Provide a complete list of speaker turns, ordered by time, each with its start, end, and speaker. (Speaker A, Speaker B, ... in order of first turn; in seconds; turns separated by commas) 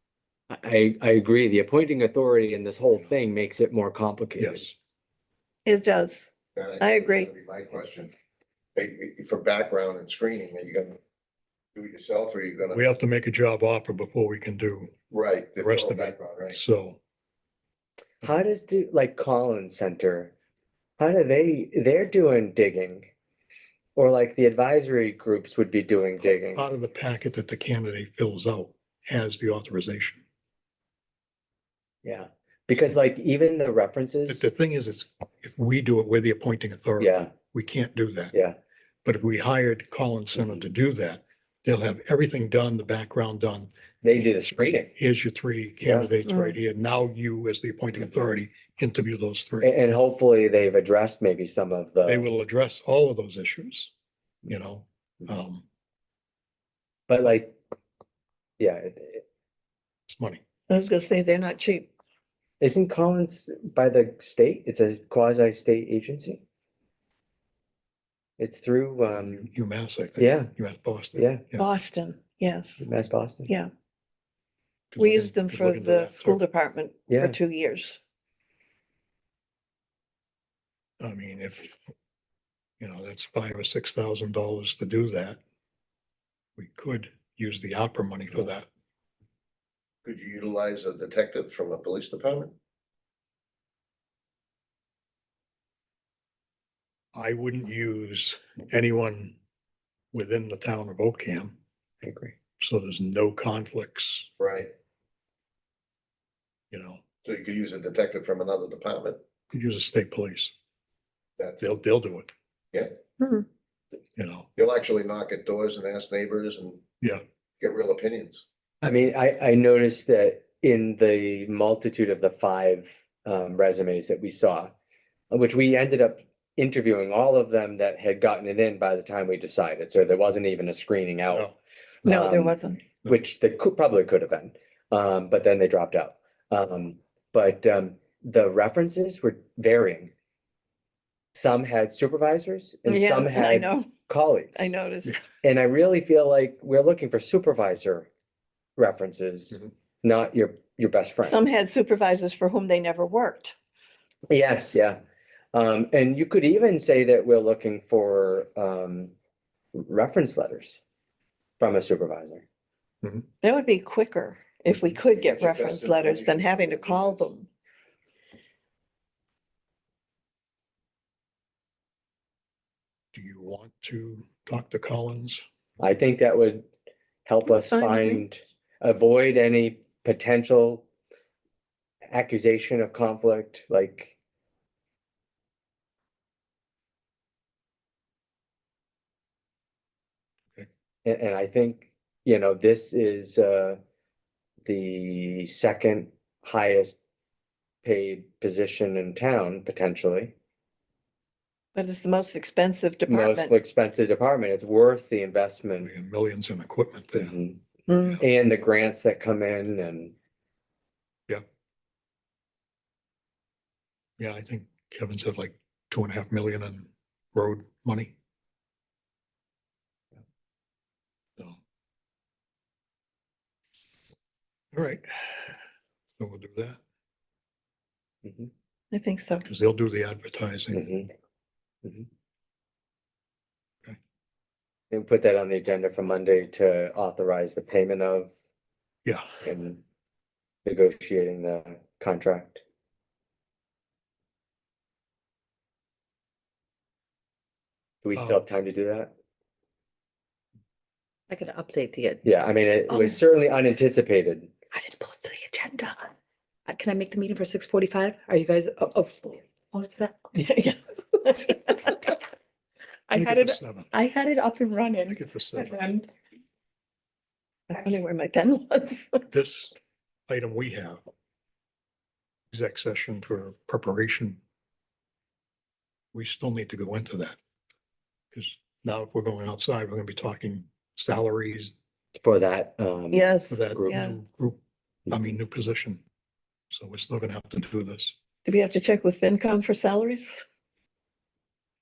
Speaker A: 0.5-4.7, Speaker B: 4.4-4.7, Speaker C: 5.7-7.3, Speaker D: 6.5-8.1, Speaker D: 8.7-11.0, Speaker D: 11.7-12.8, Speaker B: 12.7-14.9, Speaker D: 15.1-16.6, Speaker B: 15.6-17.0, Speaker A: 18.2-20.3, Speaker A: 21.0-23.1, Speaker A: 23.9-26.6, Speaker B: 26.5-30.2, Speaker A: 32.0-34.4, Speaker B: 34.3-38.3, Speaker A: 37.0-37.3, Speaker B: 39.0-43.7, Speaker A: 40.4-40.6, Speaker A: 44.0-44.9, Speaker B: 44.9-49.7, Speaker A: 45.8-46.1, Speaker A: 49.6-52.2, Speaker B: 52.0-53.9, Speaker B: 54.5-55.6, Speaker A: 57.1-57.6, Speaker A: 58.6-59.2, Speaker B: 60.1-60.4, Speaker C: 60.7-61.9, Speaker A: 62.6-66.4, Speaker A: 68.4-69.5, Speaker B: 69.1-71.7, Speaker A: 70.2-70.5, Speaker A: 71.1-71.4, Speaker C: 71.5-72.8, Speaker A: 72.8-73.5, Speaker B: 74.9-76.4, Speaker C: 75.0-78.0, Speaker A: 77.1-77.4, Speaker B: 81.0-81.8, Speaker B: 82.8-85.4, Speaker B: 86.6-88.7, Speaker D: 90.0-92.5, Speaker B: 97.1-99.4, Speaker B: 100.1-101.5, Speaker A: 102.0-102.3, Speaker B: 102.6-104.3, Speaker D: 104.4-104.7, Speaker B: 106.7-107.0, Speaker D: 107.2-109.2, Speaker B: 109.5-110.5, Speaker D: 111.4-111.6, Speaker B: 111.6-112.3, Speaker C: 113.2-113.5, Speaker B: 114.2-114.5, Speaker D: 114.5-116.8, Speaker D: 117.6-118.4, Speaker A: 118.8-124.7, Speaker A: 125.3-131.5, Speaker C: 132.0-132.8, Speaker A: 132.0-140.1, Speaker A: 141.3-144.7, Speaker C: 142.8-145.2, Speaker A: 145.4-148.1, Speaker A: 148.8-151.4, Speaker C: 151.2-153.5, Speaker A: 154.3-155.0, Speaker A: 155.5-159.1, Speaker A: 159.7-160.8, Speaker A: 161.6-162.4, Speaker C: 163.4-167.5, Speaker D: 165.1-167.3, Speaker B: 173.1-175.4, Speaker A: 175.8-176.7, Speaker A: 177.2-180.8, Speaker C: 177.4-178.2, Speaker A: 182.1-184.1, Speaker A: 191.0-193.8, Speaker A: 194.6-197.0, Speaker A: 197.8-200.3, Speaker C: 201.7-203.6, Speaker A: 203.1-205.9, Speaker B: 205.8-207.3, Speaker A: 207.1-207.6, Speaker C: 207.9-208.2, Speaker A: 208.2-210.1, Speaker B: 214.2-218.1, Speaker B: 224.7-225.5, Speaker B: 226.2-226.8, Speaker A: 228.2-228.5, Speaker C: 228.9-229.4, Speaker B: 229.4-230.8, Speaker A: 230.7-231.1, Speaker A: 234.9-238.3, Speaker A: 239.4-239.8, Speaker A: 240.6-242.6, Speaker A: 248.0-249.1, Speaker B: 248.1-248.4, Speaker E: 251.3-252.2, Speaker A: 252.2-254.5, Speaker C: 252.9-253.2, Speaker C: 254.8-255.9, Speaker E: 254.8-256.0, Speaker E: 256.7-260.3, Speaker C: 260.3-262.1, Speaker E: 263.1-266.1, Speaker B: 263.1-263.9, Speaker B: 265.1-265.8, Speaker C: 267.7-269.2, Speaker B: 269.3-269.7, Speaker B: 270.3-271.0, Speaker B: 272.5-274.4, Speaker B: 276.1-277.4, Speaker B: 278.3-281.7, Speaker A: 282.2-284.0, Speaker C: 283.1-284.2, Speaker B: 283.5-286.0, Speaker B: 286.7-288.1, Speaker C: 288.4-290.4